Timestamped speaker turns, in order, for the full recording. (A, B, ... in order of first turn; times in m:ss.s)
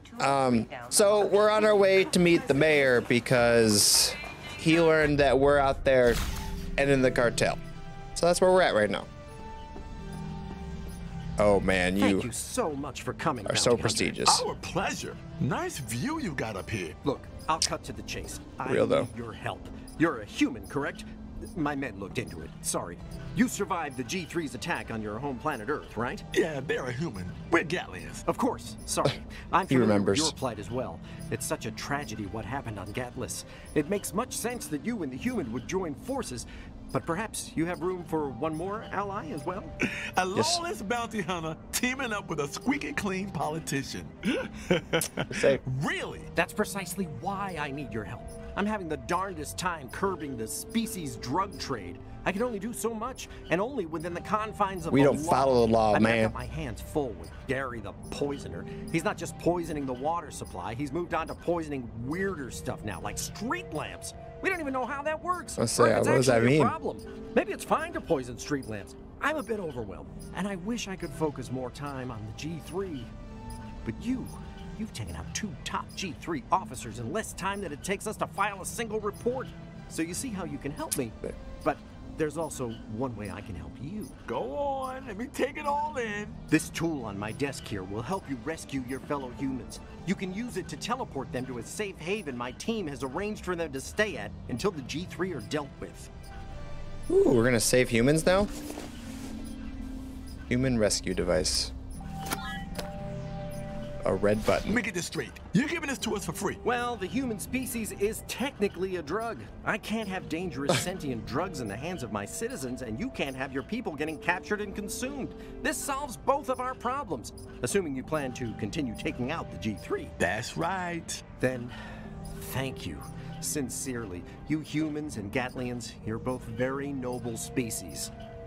0:00.2-0:06.2 A
0:06.8-0:07.6 A
0:08.2-0:09.1 A
0:11.4-0:12.3 A
0:12.0-0:14.2 B
0:13.5-0:14.5 A
0:14.2-0:17.0 C
0:17.0-0:26.2 B
0:18.7-0:19.1 A
0:26.3-0:28.2 C
0:28.3-0:39.7 B
0:29.7-0:30.4 A
0:39.9-0:46.3 C
0:40.4-0:40.6 A
0:45.3-0:45.6 A
0:46.4-1:13.1 B
0:54.9-0:56.4 A
1:05.6-1:06.8 A
1:13.8-1:24.2 B
1:24.3-1:26.4 C
1:26.5-1:36.1 B
1:37.1-1:38.5 A
1:40.5-1:41.7 A
1:44.0-1:44.8 A
1:44.6-1:46.6 C
1:46.6-2:00.2 B
2:00.2-2:01.2 C
2:01.4-2:01.8 B
2:02.4-2:08.1 B